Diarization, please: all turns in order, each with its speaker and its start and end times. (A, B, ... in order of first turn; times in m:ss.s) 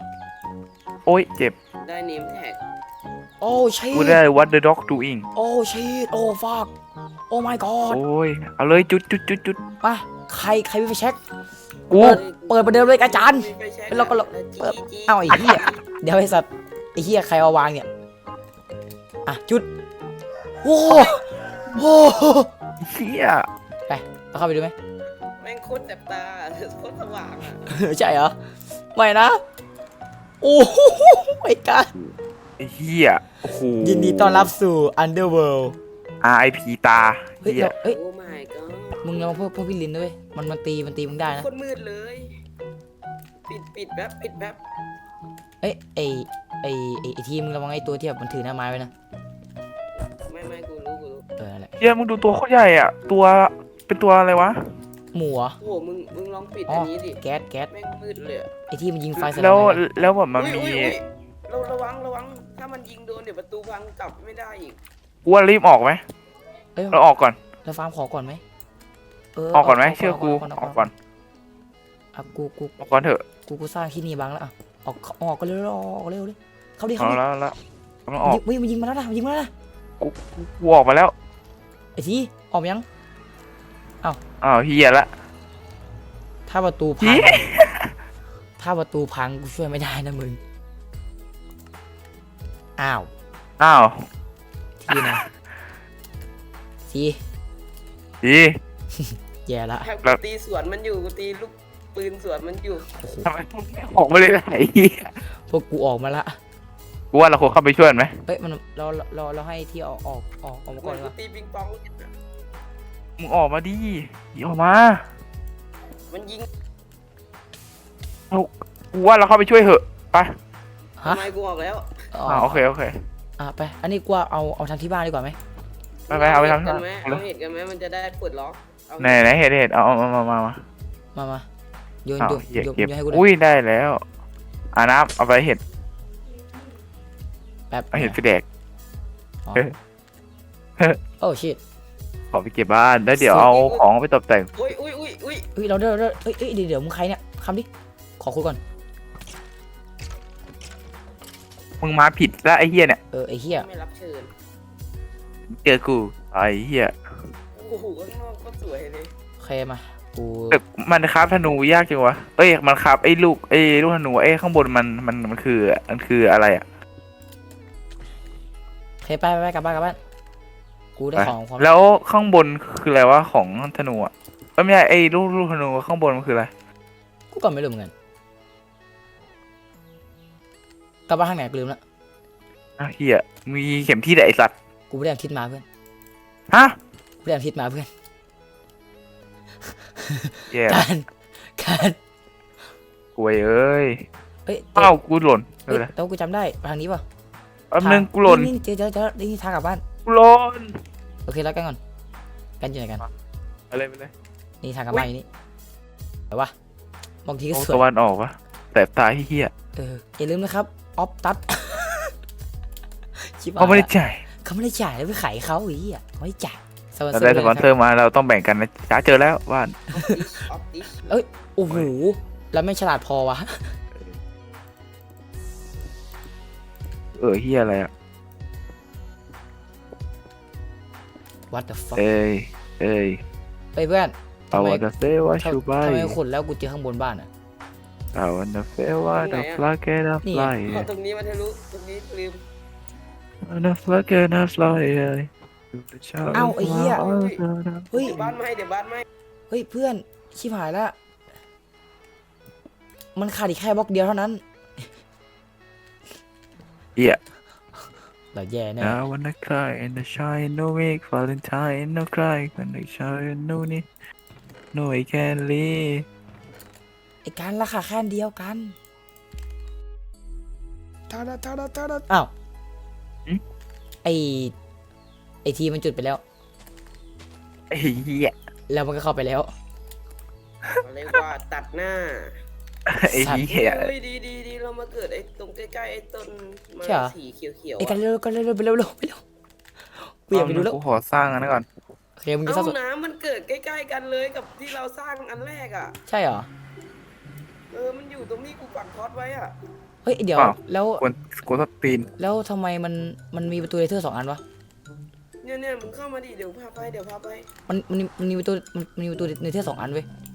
0:01.0-0:01.5 A
0:01.8-0:02.6 B
0:03.4-0:04.2 C
0:03.9-0:05.3 A
0:05.4-0:06.7 C
0:07.3-0:08.0 C
0:07.9-0:09.6 A
0:09.8-0:11.2 C
0:11.9-0:12.2 A
0:11.9-0:17.9 C
0:12.0-0:15.7 B
0:19.2-0:19.7 C
0:20.6-0:22.5 C
0:22.8-0:23.5 A
0:23.9-0:24.7 C
0:25.4-0:27.6 B
0:27.6-0:28.3 C
0:28.9-0:29.4 C
0:30.4-0:31.9 C
0:32.0-0:34.5 A
0:33.8-0:35.8 C
0:36.2-0:37.8 A
0:37.4-0:38.0 C
0:37.8-0:39.0 B
0:39.0-0:41.5 C
0:41.3-0:42.3 B
0:43.5-0:44.6 B
0:45.6-0:48.9 C
0:50.0-0:51.2 B
0:51.4-0:51.8 C
0:51.8-0:54.6 A
0:55.1-0:55.6 C
0:55.6-0:58.5 B
0:56.7-0:57.7 C
0:58.7-0:59.8 C
0:59.2-1:01.0 A
1:00.3-1:04.8 B
1:05.2-1:06.0 A
1:06.9-1:07.4 A
1:07.6-1:08.4 C
1:09.4-1:10.9 C
1:09.5-1:10.9 A
1:12.1-1:12.8 C
1:12.8-1:13.2 A
1:13.4-1:17.2 C
1:17.0-1:17.5 A
1:18.1-1:18.4 A
1:18.2-1:19.5 C
1:20.0-1:21.1 A
1:22.0-1:22.8 C
1:24.4-1:25.1 A
1:26.5-1:27.4 C
1:27.0-1:27.9 A
1:28.6-1:30.4 C
1:32.8-1:33.1 C
1:33.6-1:34.0 A
1:34.8-1:35.2 C
1:34.9-1:35.2 A
1:36.9-1:37.2 C
1:38.2-1:38.5 A
1:38.9-1:39.9 C
1:39.8-1:42.9 B
1:42.9-1:43.3 C
1:43.2-1:45.2 A
1:45.3-1:46.4 C
1:47.1-1:48.2 A
1:48.2-1:51.1 C
1:50.8-1:52.1 B
1:53.2-1:55.0 A
1:56.1-1:56.4 B
1:58.3-2:00.4 A
2:01.0-2:01.2 C
2:01.0-2:02.1 B
2:02.1-2:02.7 C
2:02.3-2:03.0 A
2:03.4-2:05.4 C
2:06.1-2:09.3 B
2:06.1-2:07.2 A
2:09.0-2:10.6 A
2:11.1-2:11.4 C
2:12.0-2:13.3 C
2:12.2-2:14.0 A
2:14.7-2:15.6 A
2:17.7-2:18.2 C
2:17.9-2:18.4 A
2:21.2-2:21.6 C
2:22.3-2:24.5 A
2:23.2-2:23.5 C
2:23.3-2:23.8 B
2:24.6-2:25.5 B
2:25.6-2:27.7 C
2:28.2-2:28.6 C
2:31.8-2:33.0 A
2:33.1-2:33.7 C
2:33.5-2:34.3 B
2:35.5-2:36.9 A
2:37.5-2:39.1 B
2:39.4-2:40.6 C
2:40.5-2:46.6 A
2:49.0-2:50.0 C
2:51.0-2:51.7 C
2:51.2-2:56.5 A
2:57.3-2:57.9 C
3:01.1-3:01.8 C
3:02.8-3:04.5 A
3:04.9-3:05.6 C
3:06.5-3:06.8 A
3:07.2-3:07.9 C
3:09.9-3:12.0 C
3:10.5-3:10.8 A
3:13.2-3:14.0 A
3:14.4-3:14.9 C
3:14.8-3:15.9 A
3:15.7-3:17.0 C
3:17.7-3:18.5 A
3:17.8-3:19.8 C
3:20.0-3:20.8 A
3:21.2-3:21.8 C
3:22.6-3:23.0 C
3:23.7-3:24.1 A
3:24.6-3:25.2 C
3:27.2-3:27.8 C
3:27.5-3:29.5 A
3:29.8-3:32.1 C
3:33.2-3:33.9 C
3:33.6-3:34.2 A
3:34.4-3:37.7 C
3:37.1-3:39.8 A
3:39.9-3:41.1 B
3:40.0-3:40.2 C
3:41.0-3:43.7 C
3:47.1-3:47.9 A
3:51.5-3:52.1 C
3:52.0-3:53.2 A
3:53.7-3:57.3 C
3:54.5-3:56.2 A
3:58.1-4:00.9 A
3:59.1-3:59.6 B
4:00.2-4:00.6 C
4:00.6-4:02.4 B
4:03.4-4:08.0 A
4:06.3-4:07.0 C
4:06.6-4:07.4 B
4:07.9-4:08.2 C
4:07.9-4:09.0 B
4:09.5-4:10.9 C
4:13.2-4:14.8 C
4:18.3-4:19.0 C
4:18.8-4:23.9 A
4:24.7-4:26.0 A
4:27.2-4:28.8 C
4:31.1-4:32.3 C
4:34.0-4:34.5 C
4:35.4-4:36.2 C
4:37.7-4:38.3 A
4:38.7-4:39.5 C
4:40.8-4:42.3 B
4:42.9-4:43.9 A
4:43.1-4:43.5 C
4:43.5-4:48.0 B
4:46.8-4:47.1 C
4:47.8-4:49.2 C
4:50.0-4:50.8 C
4:50.3-4:51.6 A
4:52.2-4:52.7 C
4:52.4-4:56.0 B
4:56.1-4:56.5 C
4:57.7-4:59.5 B
5:00.0-5:01.0 C
5:00.4-5:02.1 A
5:02.2-5:04.4 C
5:05.4-5:07.5 B
5:07.7-5:10.0 C